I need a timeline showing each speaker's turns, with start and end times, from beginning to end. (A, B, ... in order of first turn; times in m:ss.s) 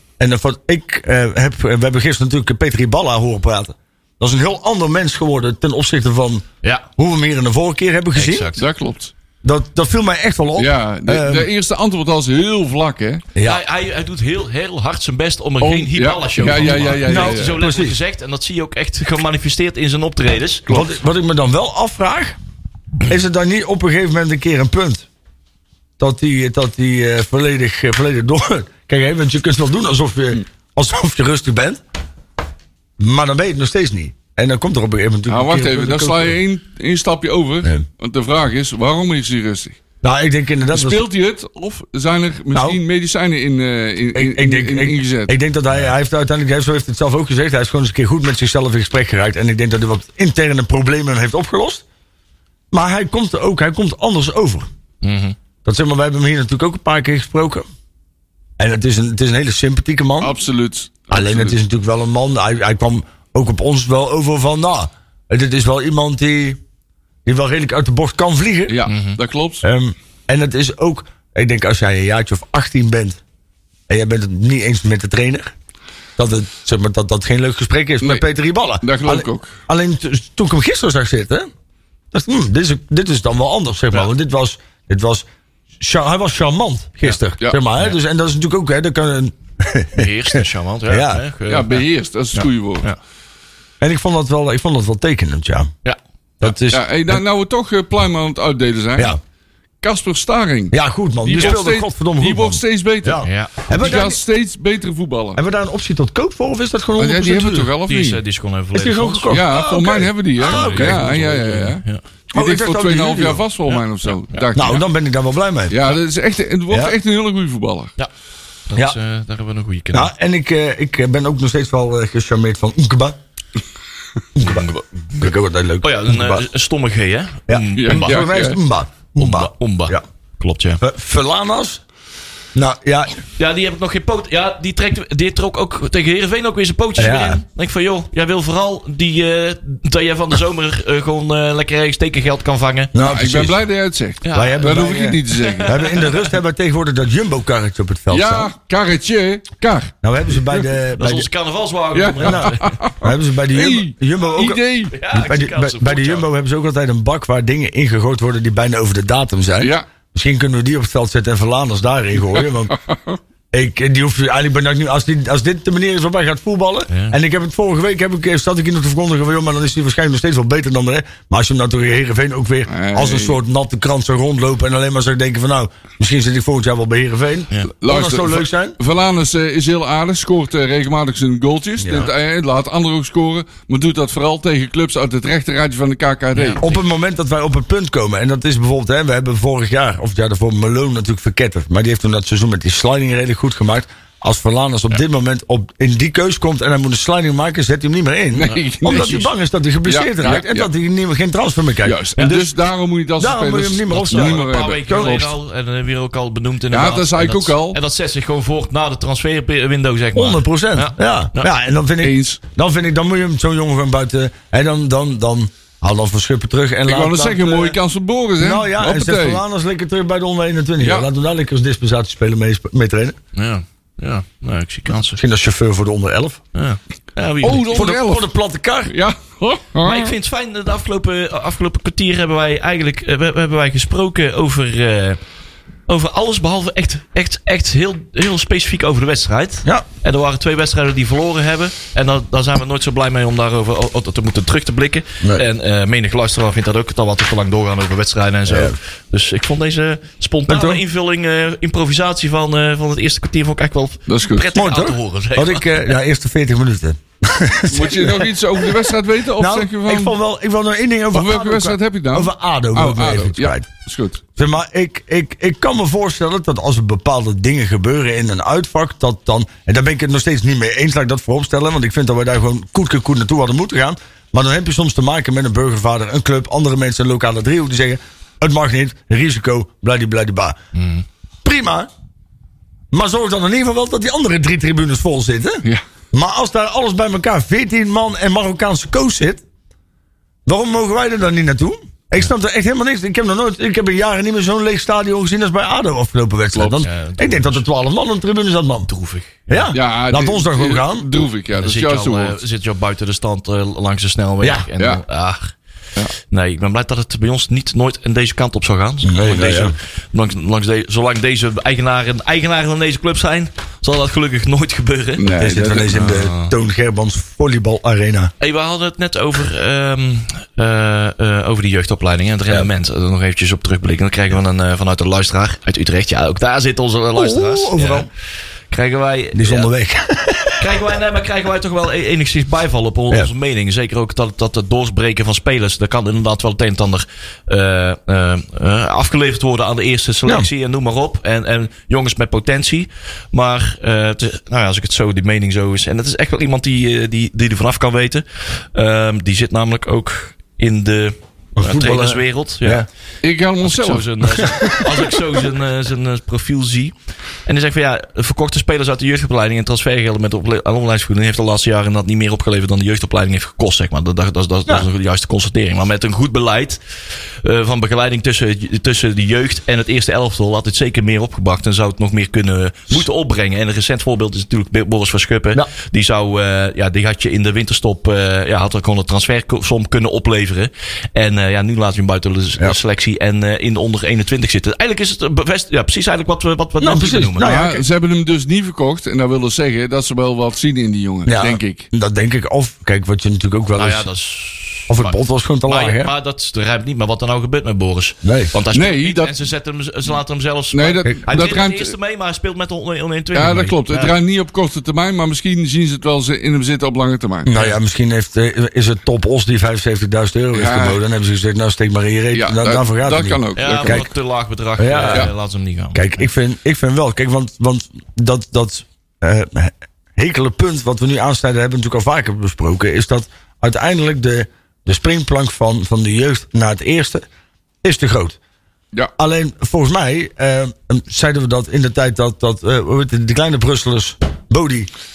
0:00.2-0:06.4 A
0:07.0-0:08.5 A
0:08.1-0:08.6 B
0:08.6-0:09.1 C
0:09.4-0:11.5 A
0:10.6-0:13.2 C
0:13.3-0:13.6 A
0:13.4-0:20.9 B
0:15.6-0:17.6 C
0:17.0-0:18.0 A
0:20.7-0:22.4 A
0:23.0-0:25.0 A
0:26.0-0:31.8 A
0:33.0-0:36.4 A
0:35.3-0:39.8 C
0:40.0-0:41.0 A
0:40.7-0:45.3 C
0:42.5-0:42.8 A
0:44.1-0:51.8 A
0:52.7-0:54.7 A
0:55.0-0:55.4 B
0:55.6-0:57.6 A
0:58.6-1:00.3 A
1:00.2-1:01.6 C
1:01.1-1:06.6 A
1:07.2-1:08.8 A
1:08.7-1:09.6 C
1:08.9-1:09.2 B
1:09.6-1:13.2 A
1:13.9-1:15.5 A
1:16.2-1:21.5 A
1:18.8-1:19.5 C
1:22.1-1:25.2 A
1:25.8-1:31.2 A
1:30.0-1:31.8 B
1:31.5-1:32.9 C
1:32.4-1:33.0 B
1:33.8-1:35.7 A
1:36.4-1:37.2 A
1:36.7-1:39.2 C
1:39.8-1:45.4 C
1:40.7-1:44.2 A
1:43.2-1:43.7 B
1:45.4-1:47.7 A
1:47.0-1:48.2 C
1:47.9-1:49.4 B
1:48.7-1:51.1 A
1:49.3-1:54.8 C
1:50.4-1:52.0 B
1:52.3-1:53.4 A
1:53.7-1:54.4 B
1:54.5-1:55.8 A
1:55.7-1:57.9 C
1:56.7-1:56.9 A
1:58.7-2:00.1 B
1:59.9-2:03.2 A
2:04.4-2:06.4 A
2:04.4-2:04.8 B
2:05.8-2:08.3 B
2:07.5-2:10.0 A
2:07.8-2:08.6 C
2:09.2-2:10.8 B
2:10.8-2:11.8 A
2:12.5-2:13.2 A
2:13.4-2:22.9 B
2:17.0-2:17.4 A
2:22.9-2:23.6 A
2:23.0-2:25.8 C
2:24.2-2:26.3 B
2:24.3-2:28.5 A
2:28.1-2:30.7 C
2:30.0-2:31.3 A
2:31.0-2:32.8 B
2:31.9-2:34.9 C
2:32.2-2:42.7 A
2:34.9-2:36.2 B
2:42.7-2:43.2 C
2:43.5-2:58.8 A
2:46.9-2:47.2 B
2:52.7-2:53.4 C
2:57.8-3:06.6 C
3:01.8-3:02.1 A
3:06.3-3:06.8 B
3:06.6-3:22.5 A
3:18.3-3:19.3 C
3:19.8-3:20.7 C
3:21.8-3:25.3 C
3:23.2-3:25.2 A
3:23.9-3:31.5 B
3:26.7-3:27.8 C
3:30.1-3:37.8 A
3:32.0-3:32.4 C
3:36.8-3:39.4 C
3:38.4-3:43.2 A
3:40.8-3:41.1 C
3:43.3-3:45.2 B
3:45.2-3:46.4 A
3:46.5-3:47.9 B
3:47.4-3:48.2 C
3:47.7-3:48.9 A
3:48.9-3:50.1 C
3:49.8-3:55.2 B
3:55.9-4:15.7 B
4:08.5-4:08.8 A
4:10.5-4:10.8 A
4:14.1-4:14.5 C
4:14.5-4:23.7 A
4:17.7-4:20.1 C
4:21.1-4:24.2 C
4:24.4-4:40.6 A
4:40.7-4:41.0 B
4:41.4-4:41.9 A
4:42.9-4:49.4 A
4:50.4-4:58.9 A
4:56.5-4:56.8 C
4:56.8-4:57.6 B
4:58.9-4:59.7 B
4:59.5-5:01.1 A
4:59.7-5:02.4 C
5:01.5-5:05.5 B
5:06.3-5:15.3 B
5:09.0-5:09.7 A
5:15.2-5:15.9 C
5:15.4-5:18.3 A
5:15.9-5:16.5 B
5:18.4-5:28.1 B
5:27.2-5:28.1 A
5:28.7-5:29.7 B
5:29.3-5:30.7 A
5:30.6-5:52.8 B
5:51.6-5:52.8 A
5:53.2-5:54.7 C
5:53.6-5:56.9 B
5:54.4-5:54.8 A
5:57.4-6:06.8 B
6:07.4-6:27.5 B
6:26.8-6:27.8 A
6:27.4-6:31.9 C
6:31.2-6:34.0 A
6:33.8-6:44.1 B
6:34.9-6:36.1 A
6:38.2-6:38.5 A
6:38.7-6:39.4 C
6:40.7-6:41.9 C
6:43.3-6:47.5 C
6:47.4-6:54.1 A
6:50.5-6:51.0 C
6:52.3-6:54.0 C
6:53.6-6:56.0 B
6:54.8-6:55.3 A
6:55.9-7:07.2 A
7:07.8-7:08.4 A
7:09.2-7:14.9 A